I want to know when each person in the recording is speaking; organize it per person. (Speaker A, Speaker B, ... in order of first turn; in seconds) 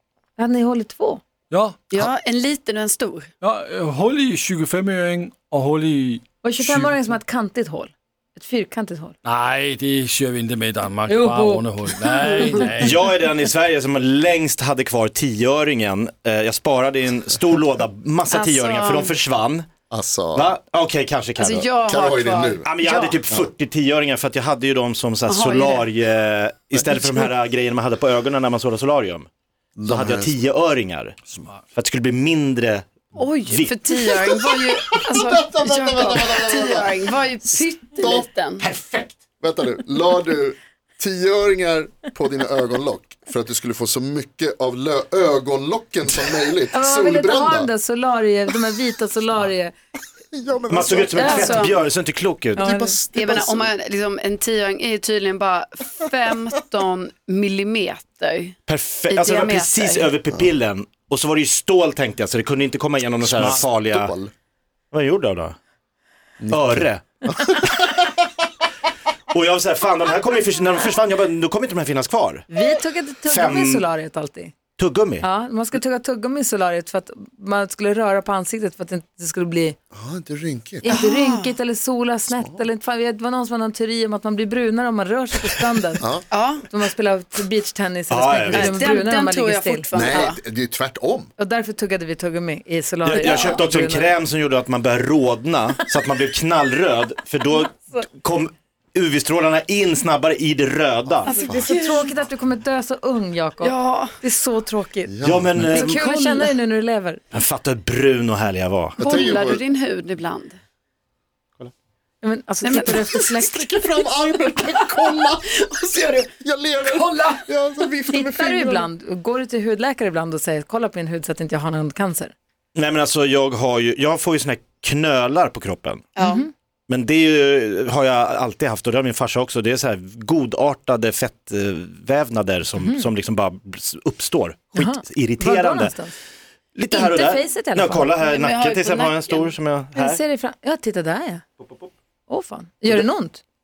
Speaker A: 0.4-1.2, 6.4-9.1, 11.1-11.9, 46.7-49.7, 51.1-51.7, 52.6-53.0, 72.5-74.5, 75.2-79.8, 80.8-86.1, 86.6-89.9, 91.4-94.1, 97.6-98.0, 101.2-107.2, 112.2-113.4, 118.1-122.3, 126.2-126.5, 132.8-133.1, 134.7-136.1, 136.9-138.1, 139.9-141.4, 142.3-143.4
Speaker B: 1.5-1.8, 3.4-7.0, 9.2-12.9
Speaker C: 1.9-3.3, 12.0-12.8, 18.3-19.1, 21.4-23.2, 25.3-25.9, 33.1-38.7, 51.2-51.8, 53.1-58.5, 59.1-60.1, 80.9-81.5, 86.3-86.7, 88.5-90.4, 93.2-93.6, 101.2-102.1, 103.6-104.1, 106.2-106.5, 109.0-110.6, 112.6-114.0, 114.6-116.3, 116.9-117.4, 126.2-126.4, 138.2-139.5
Speaker D: 12.7-19.7, 20.3-21.7, 22.6-29.3, 29.9-31.2, 31.7-34.1, 38.6-39.1, 50.7-52.8, 58.7-64.1, 64.9-65.5, 66.5-67.0, 69.3-72.5, 73.2-73.8, 74.8-75.3, 88.1-88.9, 93.0-101.3, 105.2-106.2, 107.3-109.2, 122.7-126.1, 126.9-135.9, 136.7-140.2, 141.6-141.9
Speaker E: 19.9-20.6, 21.8-22.7, 29.8-30.3, 34.2-37.0, 38.0-38.3, 39.4-47.7, 50.3-51.3, 52.5-53.6, 63.3-64.3, 66.4-68.0, 79.9-80.8, 82.3-82.6, 86.0-86.2, 89.9-91.3, 105.1-105.7, 109.0-109.6, 113.4-115.4, 116.4-118.9